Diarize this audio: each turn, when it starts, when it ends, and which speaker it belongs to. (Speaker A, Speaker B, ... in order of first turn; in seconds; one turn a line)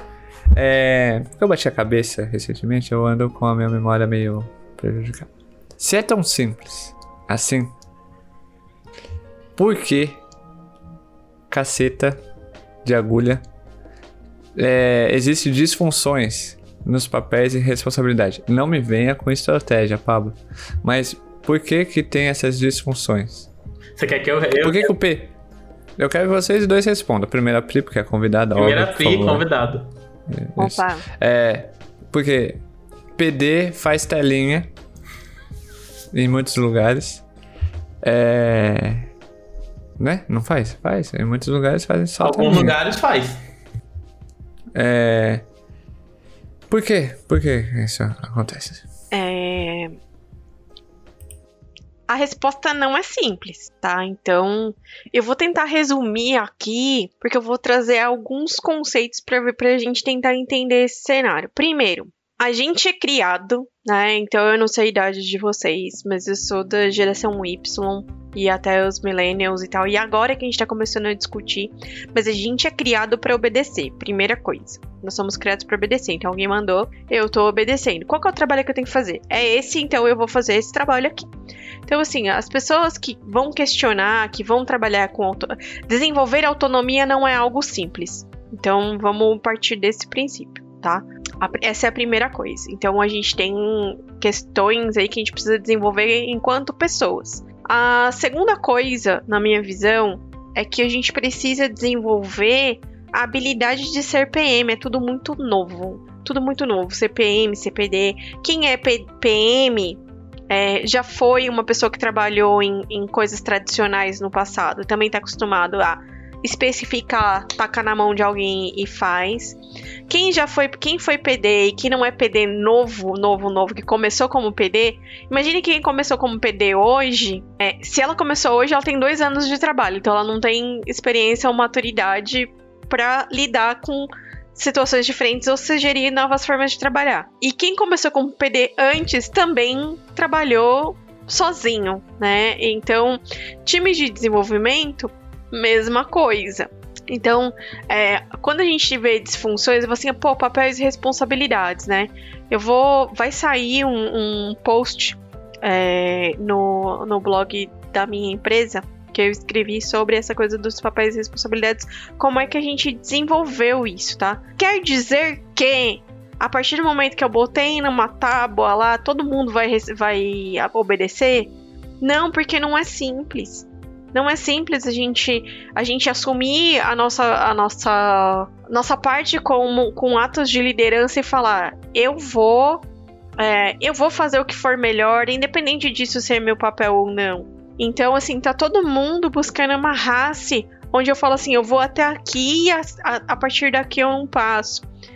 Speaker A: 0.5-7.7
Speaker A: 9.6-10.2
Speaker A: 11.5-12.2
Speaker A: 12.8-13.4
Speaker A: 14.6-23.5
Speaker B: 24.0-24.9
Speaker A: 24.6-25.3
Speaker A: 26.0-29.4
Speaker B: 28.5-29.9
Speaker A: 30.3-32.6
Speaker C: 30.6-31.0
Speaker A: 33.1-34.7
Speaker A: 36.1-37.2
Speaker A: 38.0-39.1
Speaker A: 40.0-42.8
Speaker B: 42.2-43.4
Speaker A: 44.7-45.4
Speaker A: 46.7-48.8
Speaker C: 49.1-50.0
Speaker C: 52.1-81.3
Speaker C: 81.9-182.8
Speaker C: 183.4-194.8